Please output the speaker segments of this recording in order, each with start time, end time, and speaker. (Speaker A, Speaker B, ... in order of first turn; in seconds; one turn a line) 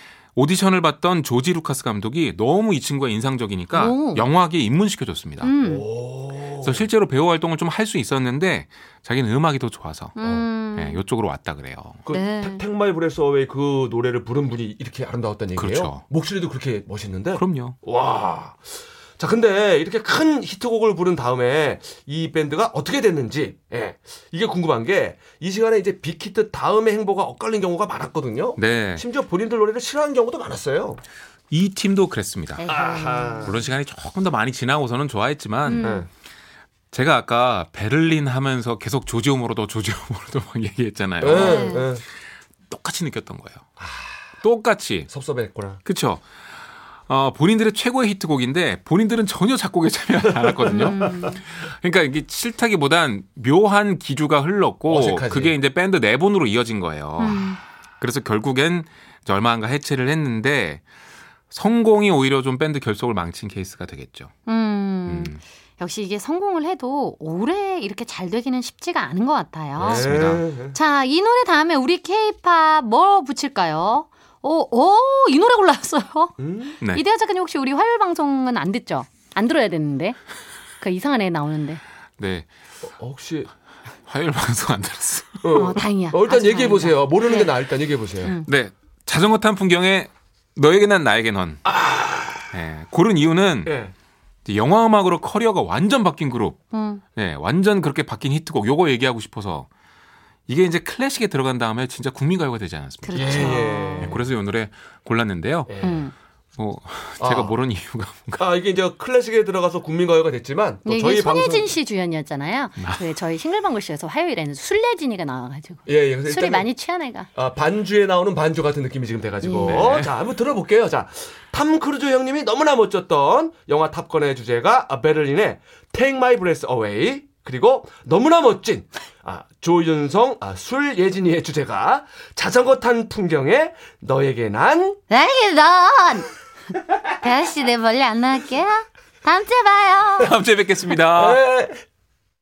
Speaker A: 0.4-5.5
Speaker B: 3.7-4.2
Speaker B: 5.4-5.8
Speaker C: 5.6-6.8
Speaker A: 6.6-10.2
Speaker B: 10.2-11.0
Speaker C: 10.2-10.5
Speaker A: 10.7-12.0
Speaker C: 12.1-31.0
Speaker B: 12.1-12.6
Speaker A: 15.6-16.1
Speaker A: 17.4-17.8
Speaker A: 28.6-29.1
Speaker A: 31.5-32.8
Speaker B: 32.6-33.6
Speaker C: 32.7-33.6
Speaker A: 33.4-35.9
Speaker B: 35.7-36.1
Speaker C: 35.8-36.1
Speaker A: 36.9-41.6
Speaker C: 41.2-42.0
Speaker B: 41.3-41.9
Speaker A: 42.7-43.6
Speaker C: 43.8-44.1
Speaker A: 44.4-45.1
Speaker C: 45.1-45.8
Speaker A: 45.9-46.3
Speaker A: 47.0-60.8
Speaker C: 50.2-51.3
Speaker B: 50.7-51.4
Speaker C: 54.9-55.5
Speaker B: 57.2-57.6
Speaker A: 61.5-64.3
Speaker B: 64.5-70.1
Speaker A: 65.1-65.4
Speaker A: 69.8-70.4
Speaker C: 69.8-70.8
Speaker B: 70.7-80.2
Speaker C: 76.4-76.7
Speaker B: 80.8-81.8
Speaker A: 82.2-82.5
Speaker C: 82.9-83.5
Speaker A: 84.1-85.6
Speaker C: 85.4-88.3
Speaker B: 85.5-87.6
Speaker B: 88.2-88.5
Speaker A: 88.5-91.6
Speaker C: 91.7-92.5
Speaker A: 92.5-93.8
Speaker C: 93.7-93.9
Speaker A: 94.5-96.6
Speaker B: 96.7-97.0
Speaker A: 97.2-99.7
Speaker A: 100.5-105.7
Speaker B: 103.0-104.2
Speaker C: 103.2-104.2
Speaker C: 105.7-106.1
Speaker B: 105.8-106.1
Speaker A: 106.6-108.5
Speaker C: 107.2-107.5
Speaker C: 108.4-111.7
Speaker B: 110.9-117.3
Speaker A: 112.8-113.1
Speaker C: 115.9-116.7
Speaker C: 117.3-135.0
Speaker B: 119.4-120.0
Speaker A: 119.6-120.1
Speaker B: 135.1-136.3
Speaker B: 137.1-140.3
Speaker A: 140.2-141.4
Speaker C: 141.1-141.8